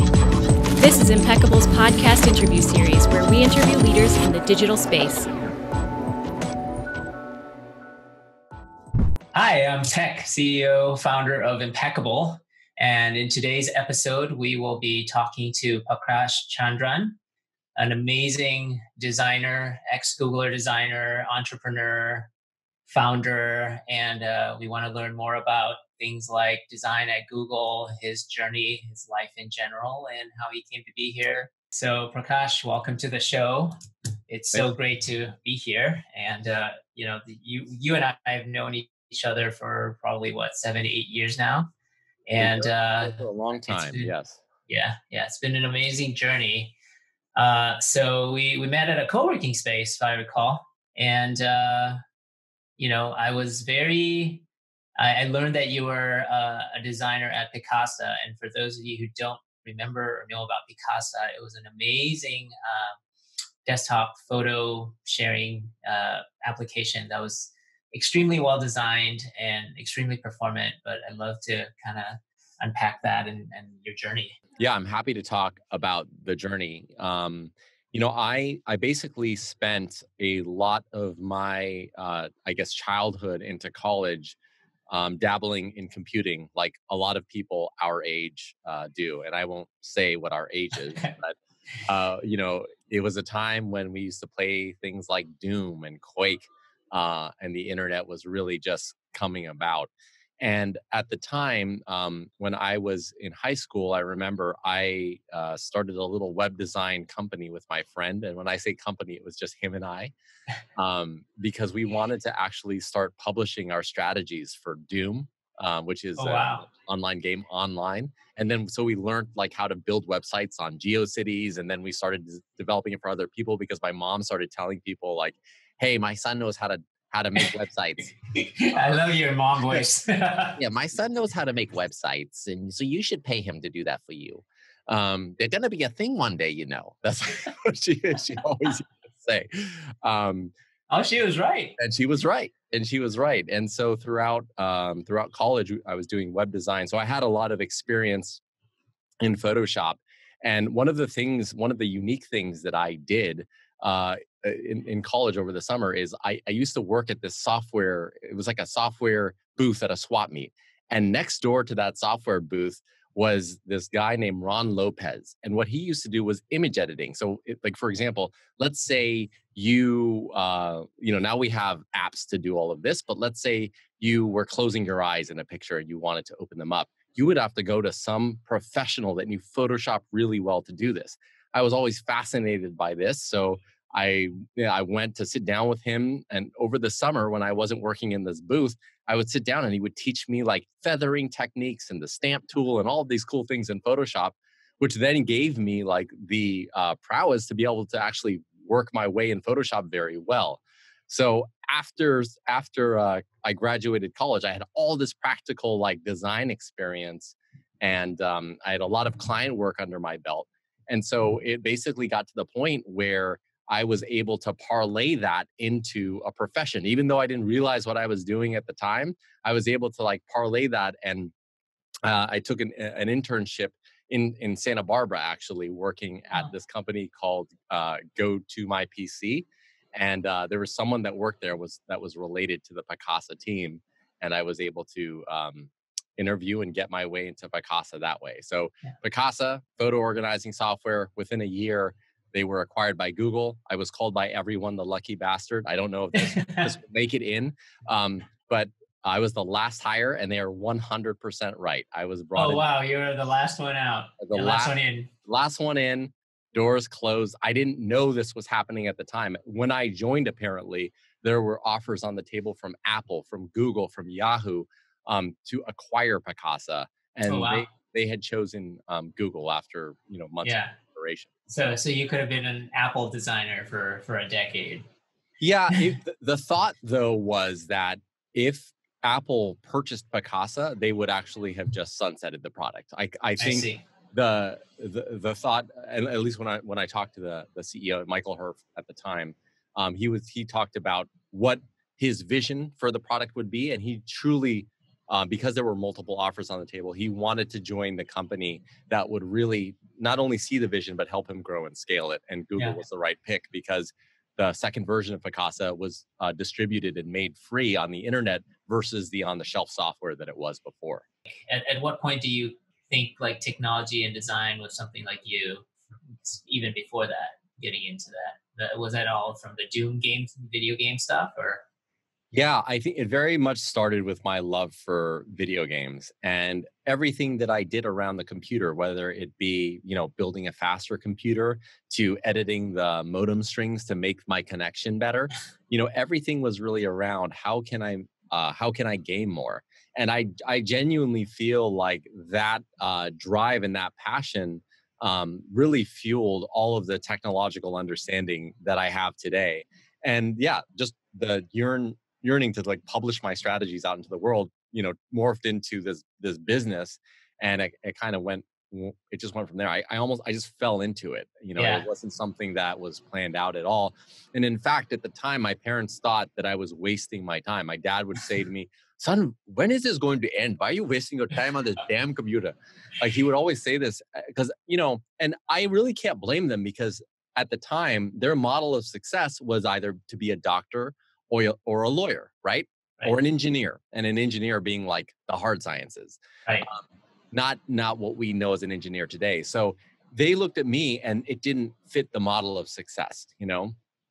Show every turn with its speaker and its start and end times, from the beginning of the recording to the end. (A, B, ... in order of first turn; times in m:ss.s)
0:00.8-0:05.3 A
0:09.3-0:17.2 B
0:17.8-0:22.3 B
0:22.9-0:33.7 B
0:34.3-0:41.7 B
0:42.3-0:44.1 B
0:42.4-0:44.4 C
0:44.7-0:46.8 B
0:47.4-0:52.0 B
0:52.8-0:54.5 B
0:55.0-1:03.0 B
1:03.6-1:14.4 B
1:14.6-1:24.4 C
1:24.9-1:31.4 C
1:31.9-1:50.1 C
1:50.8-2:08.1 C
1:56.2-1:56.7 B
2:08.4-2:10.6 B
2:08.7-2:09.0 C
2:10.6-2:20.5 C
2:20.9-2:21.8 B
2:21.8-2:28.4 C
2:29.2-3:41.3 C
3:42.0-4:12.6 C
4:06.2-4:06.7 B
4:12.4-4:15.1 B
4:14.2-4:31.3 C
4:27.3-4:27.7 B
4:30.4-4:30.8 B
4:31.5-4:34.8 B
4:35.4-5:11.0 C
4:43.4-4:43.8 B
5:11.5-5:15.7 B
5:16.2-5:21.6 B
5:22.3-6:26.8 C
6:01.6-6:01.9 B
6:27.3-6:33.7 C